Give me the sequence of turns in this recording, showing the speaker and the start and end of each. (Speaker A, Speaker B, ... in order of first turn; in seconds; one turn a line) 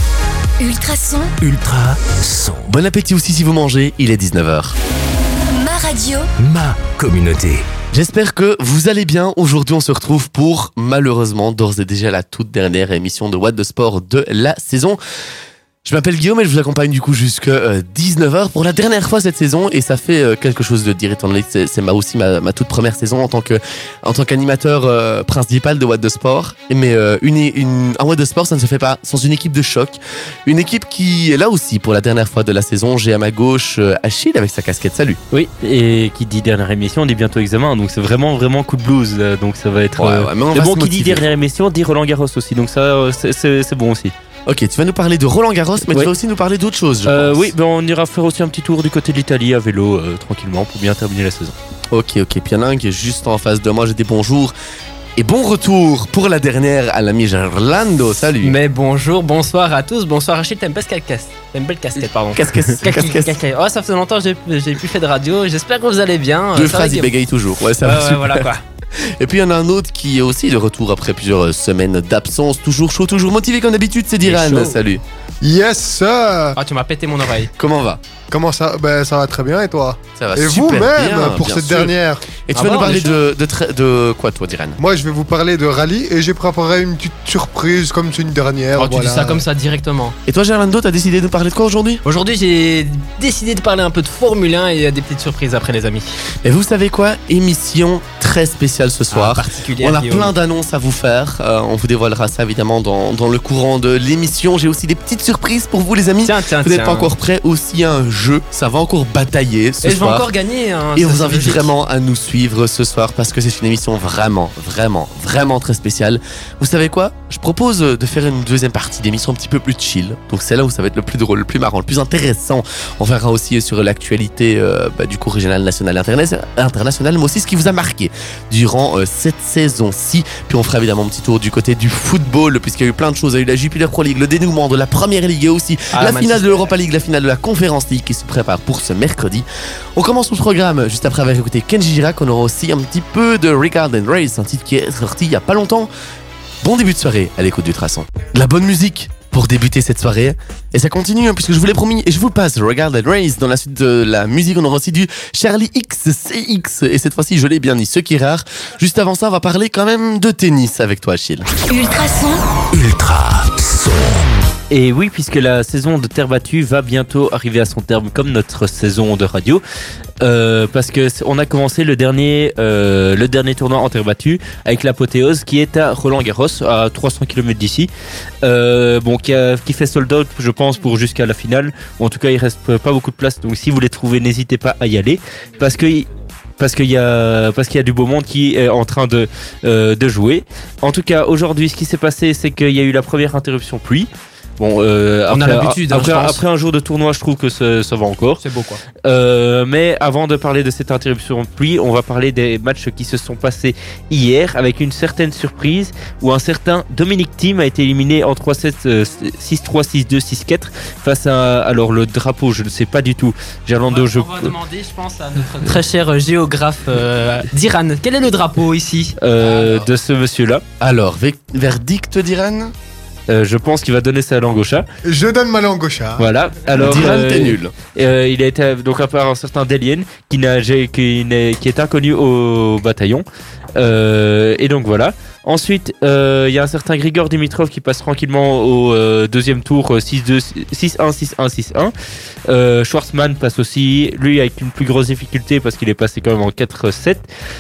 Speaker A: 0.6-1.3
Speaker B: 1.4-2.7
Speaker C: 2.7-4.8
Speaker A: 5.5-6.3
Speaker B: 6.4-7.7
Speaker C: 7.9-15.0
Speaker C: 15.8-35.2
Speaker D: 35.6-44.1
Speaker C: 40.0-41.2
Speaker C: 44.5-47.5
Speaker D: 47.1-51.6
Speaker C: 51.9-54.5
Speaker C: 55.2-58.6
Speaker E: 58.4-67.1
Speaker C: 62.3-63.4
Speaker C: 66.5-75.0
Speaker E: 67.8-68.6
Speaker E: 74.2-74.8
Speaker F: 75.4-76.6
Speaker E: 76.5-77.5
Speaker C: 77.6-78.0
Speaker F: 78.3-82.3
Speaker C: 80.2-84.8
Speaker E: 82.5-83.2
Speaker F: 84.8-89.4
Speaker E: 88.8-90.2
Speaker C: 90.3-92.0
Speaker E: 92.0-96.2
Speaker C: 96.4-110.3
Speaker E: 99.1-100.3
Speaker E: 106.2-107.1
Speaker E: 109.8-111.7
Speaker C: 111.0-145.9
Speaker E: 135.9-136.7
Speaker C: 146.6-161.5
Speaker A: 161.7-162.4
Speaker B: 162.7-164.3
Speaker D: 164.7-169.6
Speaker D: 170.2-177.9
Speaker D: 178.4-186.1
Speaker D: 186.6-198.4
Speaker E: 195.3-196.4
Speaker E: 198.4-198.8
Speaker D: 199.0-214.5
Speaker E: 213.9-219.2
Speaker D: 219.2-220.6
Speaker F: 219.4-219.9
Speaker C: 220.8-222.7
Speaker D: 223.3-224.9
Speaker F: 225.1-226.3
Speaker D: 226.2-233.2
Speaker C: 226.7-227.7
Speaker D: 233.8-241.9
Speaker D: 242.5-247.3